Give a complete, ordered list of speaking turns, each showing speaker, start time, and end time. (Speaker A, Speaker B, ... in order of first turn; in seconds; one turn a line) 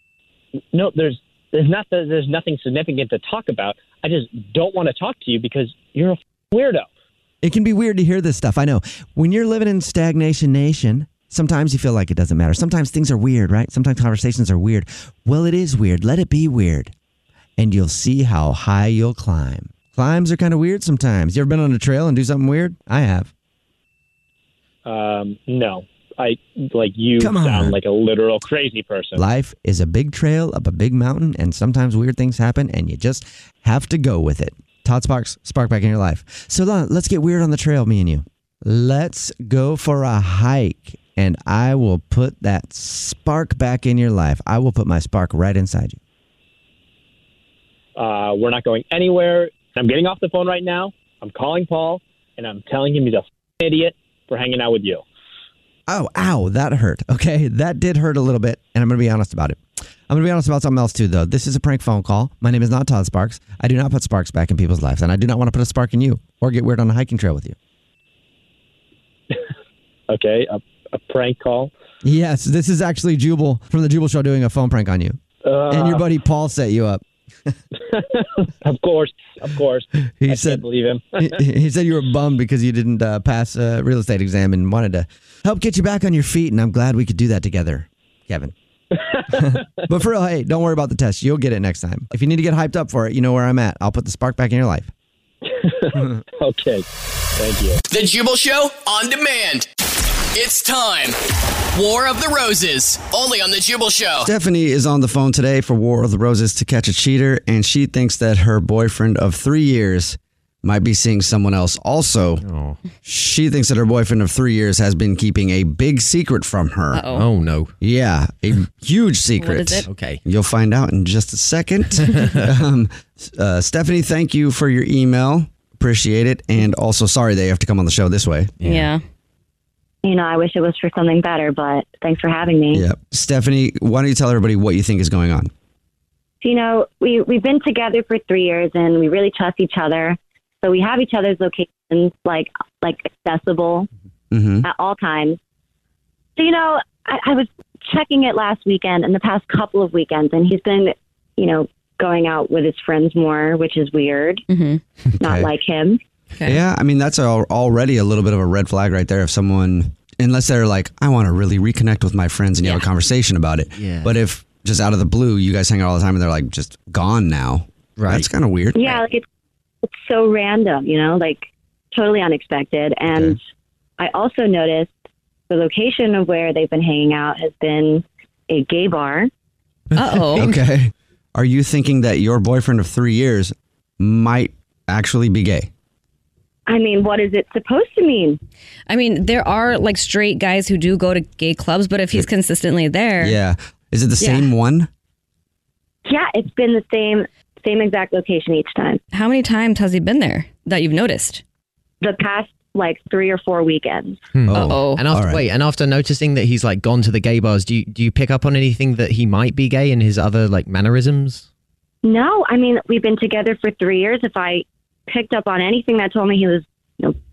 Speaker A: 0.7-6.9
Speaker B: 7.4-16.9
Speaker B: 17.6-23.3
Speaker A: 24.8-29.2
Speaker B: 27.2-27.7
Speaker B: 29.1-46.0
Speaker A: 48.0-55.0
Speaker B: 55.9-67.5
Speaker A: 70.1-71.7
Speaker B: 72.0-75.2
Speaker A: 75.4-76.0
Speaker B: 75.7-77.0
Speaker A: 77.9-81.3
Speaker B: 80.2-80.6
Speaker B: 81.2-88.5
Speaker B: 89.3-94.9
Speaker A: 95.6-96.8
Speaker A: 97.4-97.8
Speaker C: 97.9-99.7
Speaker C: 100.3-101.2
Speaker C: 101.7-104.3
Speaker B: 104.2-112.4
Speaker D: 112.4-112.8
Speaker B: 113.0-117.1
Speaker E: 116.9-117.3
Speaker D: 117.1-117.7
Speaker B: 117.8-128.5
Speaker E: 119.4-119.9
Speaker D: 119.8-120.2
Speaker D: 128.6-128.9
Speaker E: 128.6-129.0
Speaker F: 130.0-132.8
Speaker B: 132.7-135.5
Speaker F: 136.4-143.9
Speaker B: 144.3-144.7
Speaker F: 144.6-145.4
Speaker F: 146.4-154.4
Speaker E: 154.5-154.8
Speaker B: 155.2-155.5
Speaker F: 155.2-156.0
Speaker E: 156.3-156.6
Speaker B: 156.4-169.0
Speaker D: 163.7-164.2
Speaker D: 168.0-168.3
Speaker F: 168.8-169.2
Speaker F: 169.8-173.4
Speaker B: 173.1-173.4
Speaker F: 174.0-174.9
Speaker F: 175.5-179.3
Speaker E: 179.9-180.5
Speaker B: 180.3-185.7
Speaker F: 186.7-188.4
Speaker E: 188.9-193.4
Speaker B: 193.2-194.9
Speaker E: 194.2-194.5
Speaker F: 196.1-199.0
Speaker E: 199.1-201.4
Speaker F: 202.0-204.2
Speaker D: 204.3-211.5
Speaker B: 204.5-205.4
Speaker E: 204.5-205.1
Speaker F: 212.0-217.2